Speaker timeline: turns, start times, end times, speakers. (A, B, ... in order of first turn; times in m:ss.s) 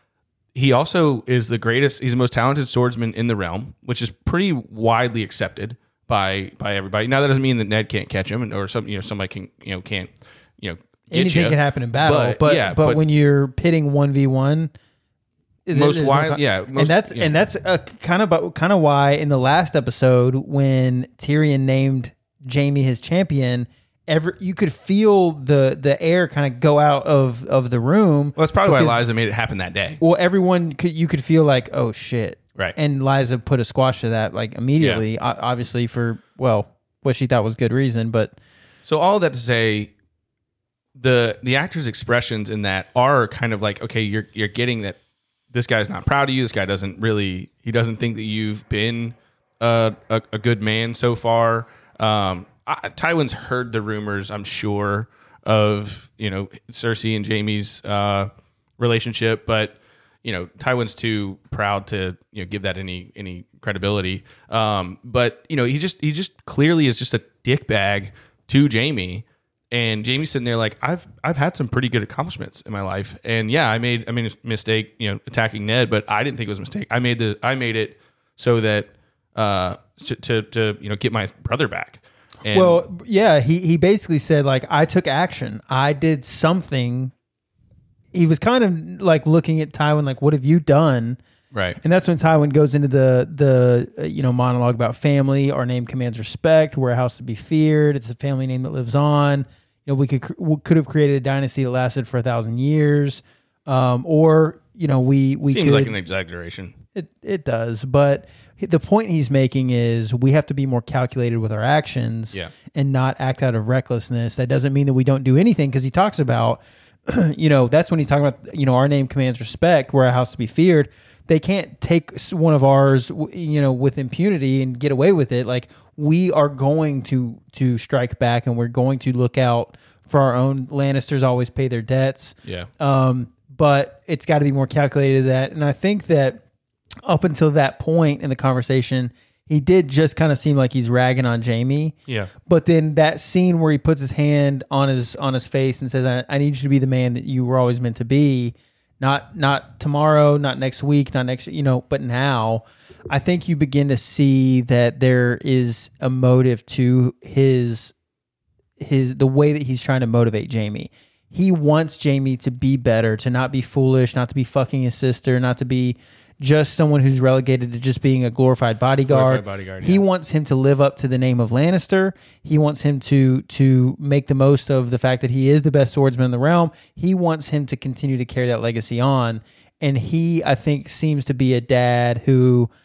0:00.5-0:13.0 A
0:11.1-0:14.7 B
0:15.7-0:29.0 B
0:15.7-0:17.3 A
0:28.4-0:30.0 A
0:30.0-0:38.4 B
0:34.8-0:35.0 A
0:38.8-0:39.9 A
0:41.0-0:45.0 A
0:45.5-1:22.8 A
1:22.5-1:27.1 B
1:28.1-1:31.2 B
1:31.5-1:31.8 A
1:31.8-1:46.0 B
1:45.5-1:46.8 A
1:47.0-2:16.4 B
2:12.4-2:12.7 A
2:17.1-2:37.9 B
2:38.8-3:02.7 B
2:49.1-2:50.0 A